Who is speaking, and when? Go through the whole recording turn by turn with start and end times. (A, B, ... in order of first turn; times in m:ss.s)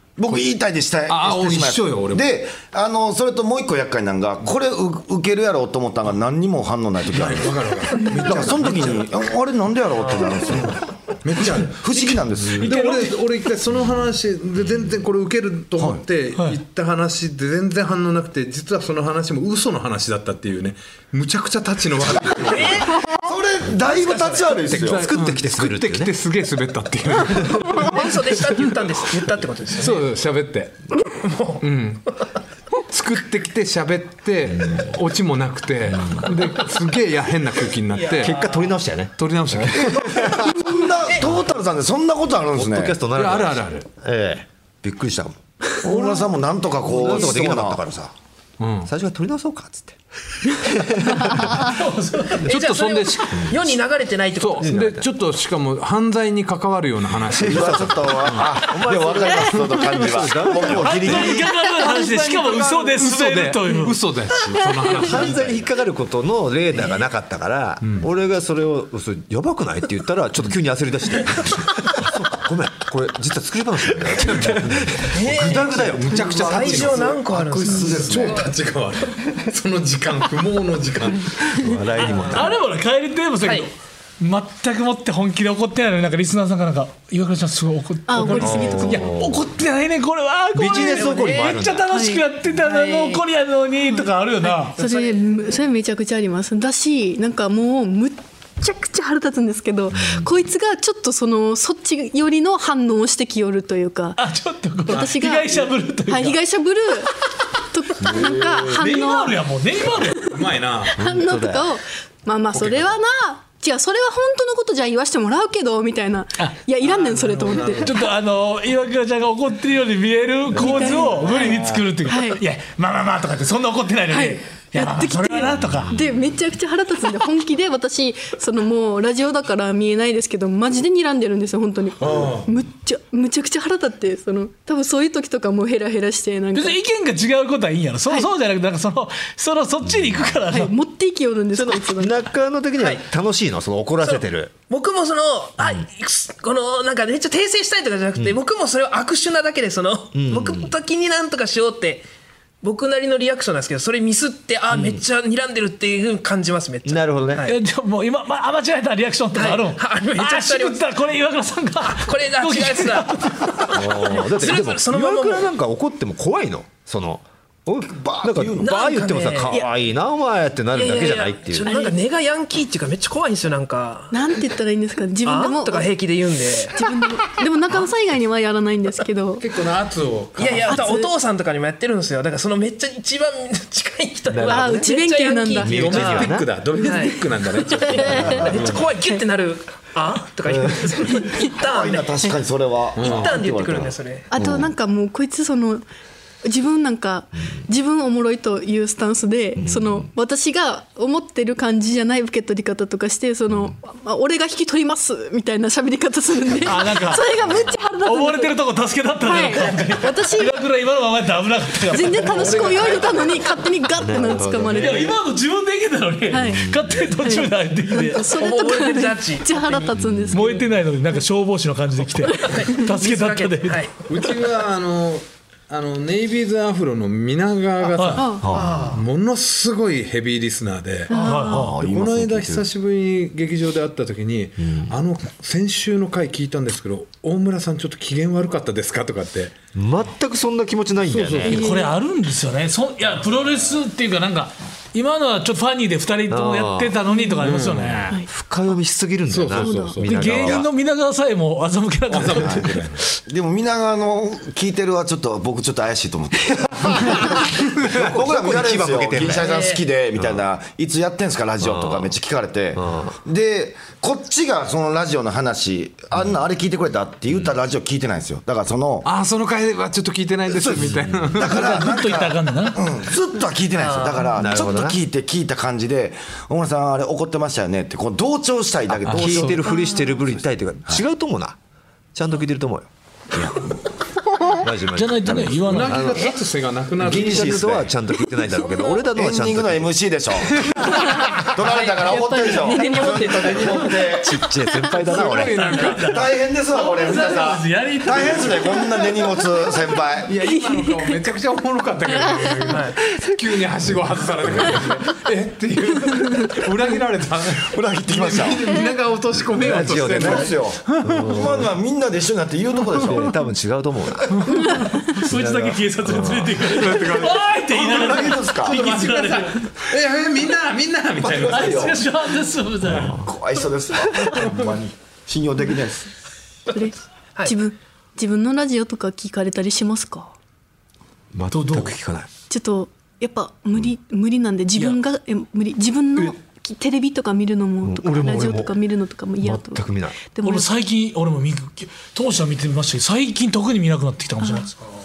0:00.2-0:10.8 A
0:01.1-0:02.3 B
0:07.1-0:09.1 B
0:10.3-0:22.9 B
0:11.4-0:12.9 A
0:12.6-0:13.1 C
0:22.4-0:23.3 D
0:23.2-0:25.1 A
0:23.8-0:24.7 D
0:24.7-0:28.7 B
0:24.7-0:26.1 E
0:27.6-0:30.1 D
0:29.8-0:30.9 B
0:31.2-0:31.6 D
0:31.6-0:32.0 B
0:32.9-0:38.4 B
0:38.0-0:38.7 D
0:38.2-0:40.5 E
0:39.2-0:40.2 B
0:39.8-0:43.0 A
0:42.5-0:45.4 E
0:43.1-0:43.8 B
0:45.8-0:47.8 A
0:46.8-0:48.1 E
0:48.6-0:48.9 B
0:48.8-0:51.6 E
0:51.6-0:52.5 C
0:52.4-0:53.8 B
0:52.5-0:54.9 D
0:54.4-0:58.4 B
0:54.6-0:55.0 E
0:57.3-1:01.4 E
0:57.4-1:01.6 A
1:00.8-1:04.0 C
1:01.0-1:05.7 B
1:04.6-1:04.8 F
1:05.0-1:17.2 E
1:07.8-1:08.1 B
1:15.1-1:18.4 D
1:15.5-1:21.6 B
1:16.2-1:18.5 A
1:17.6-1:18.0 F
1:21.6-1:22.5 E
1:22.0-1:34.8 C
1:23.4-1:23.7 D
1:28.1-1:29.2 F
1:28.4-1:29.4 E
1:30.5-1:31.8 E
1:30.7-1:31.6 D
1:31.9-1:32.2 F
1:32.5-1:33.2 D
1:34.7-1:44.2 F
1:34.8-1:35.6 D
1:39.9-1:40.3 E
1:44.2-1:46.4 C
1:44.9-1:47.2 F
1:47.7-1:49.4 F
1:48.0-1:48.7 E
1:48.6-1:50.4 C
1:50.3-1:51.0 B
1:50.9-1:57.9 F
1:51.0-1:51.8 E
1:52.5-1:53.0 B
1:56.8-1:58.0 B
1:57.8-2:06.0 C
2:00.5-2:02.4 F
2:00.7-2:01.8 B
2:04.1-2:16.8 F
2:05.7-2:06.0 E
2:12.0-2:12.5 B
2:16.5-2:20.7 C
2:19.8-2:20.4 E
2:20.5-2:22.2 F
2:21.5-2:24.5 E
2:22.8-2:23.0 D
2:24.0-2:32.1 D
2:30.1-2:30.7 E
2:32.6-2:37.6 D
2:34.7-2:35.0 E
2:36.8-2:37.4 E
2:37.4-2:43.7 C
2:39.3-2:40.8 D
2:41.8-2:45.5 D
2:43.7-2:51.7 E
2:47.8-2:48.9 A
2:48.6-2:49.6 D
2:50.7-2:54.4 D
2:51.6-2:52.0 F
2:54.1-2:56.0 F
2:55.2-2:57.3 D
2:56.7-2:59.5 F
2:59.4-3:00.8 B
3:00.4-3:12.1 D
3:00.6-3:01.1 F
3:04.3-3:04.9 E
3:04.4-3:05.8 F
3:05.6-3:06.5 E
3:05.7-3:08.7 B
3:06.8-3:07.2 F
3:07.7-3:09.2 F
3:10.5-3:10.8 E
3:11.0-3:11.5 F
3:11.6-3:14.7 A
3:13.0-3:13.4 B
3:13.0-3:14.3 D
3:14.3-3:15.8 F
3:16.4-3:28.6 F
3:19.6-3:20.1 E
3:26.6-3:27.3 C
3:28.0-3:33.0 C
3:29.2-3:30.6 F
3:31.9-3:35.2 F
3:32.2-3:33.4 D
3:34.0-3:35.0 E
3:34.7-3:38.3 C
3:36.3-3:40.8 F
3:36.4-3:37.1 E
3:38.3-3:39.9 D
3:39.9-3:40.4 E
3:40.3-3:43.8 C
3:42.2-3:42.7 F
3:42.4-3:44.0 D
3:44.1-3:59.5 B
3:47.9-3:48.2 C
3:48.1-3:48.6 F
3:48.4-3:48.7 E
3:48.5-3:49.0 D
3:51.1-3:51.7 F
3:51.1-3:51.8 C
3:51.5-3:52.6 A
3:54.6-3:54.9 E
3:59.7-4:01.6 E
4:01.0-4:01.6 B
4:01.4-4:01.9 F
4:01.5-4:08.2 C
4:06.3-4:07.0 E
4:07.1-4:07.4 F
4:07.4-4:07.9 B
4:07.8-4:10.7 E
4:09.3-4:10.3 B
4:09.5-4:10.0 F
4:10.0-4:12.8 C
4:12.1-4:13.0 B
4:12.4-4:12.7 A
4:13.3-4:29.1 A
4:16.7-4:19.5 E
4:19.3-4:19.8 D
4:21.6-4:22.1 E
4:22.7-4:23.1 E
4:29.0-4:31.7 B
4:30.7-4:31.3 E
4:31.3-4:39.7 A
4:31.4-4:32.8 C
4:33.7-4:34.3 D
4:34.4-4:35.0 E
4:38.9-4:41.6 E
4:39.1-4:39.6 B
4:39.6-4:40.2 F
4:42.1-4:42.9 E
4:43.3-4:43.7 A
4:44.6-4:46.3 E
4:44.9-4:46.1 C
4:45.7-4:47.7 B
4:47.0-4:49.9 E
4:47.0-4:47.9 A
4:49.1-4:54.4 A
4:50.9-4:51.4 F
4:51.6-4:53.9 D
4:52.1-4:54.0 F
4:54.2-4:55.6 E
4:55.0-4:56.2 B
4:55.2-4:59.0 C
4:56.0-5:00.3 A
5:00.2-5:11.3 B
5:00.4-5:01.3 F
5:02.1-5:02.8 F
5:02.7-5:03.0 D
5:06.1-5:06.5 F
5:07.7-5:08.7 A
5:09.6-5:13.3 A
5:09.6-5:11.7 E
5:13.0-5:16.8 E
5:14.5-5:14.8 F
5:14.6-5:19.7 C
5:16.7-5:22.0 B
5:17.8-5:18.8 A
5:21.2-5:22.0 A
5:21.5-5:23.2 C
5:22.8-5:23.3 E
5:23.0-5:26.1 A
5:26.7-5:30.3 F
5:31.3-5:32.3 E
5:31.5-5:31.9 C
5:32.5-5:40.7 F
5:37.8-5:38.8 E
5:39.4-5:40.2 E
5:40.4-5:44.7 C
5:44.4-5:44.7 F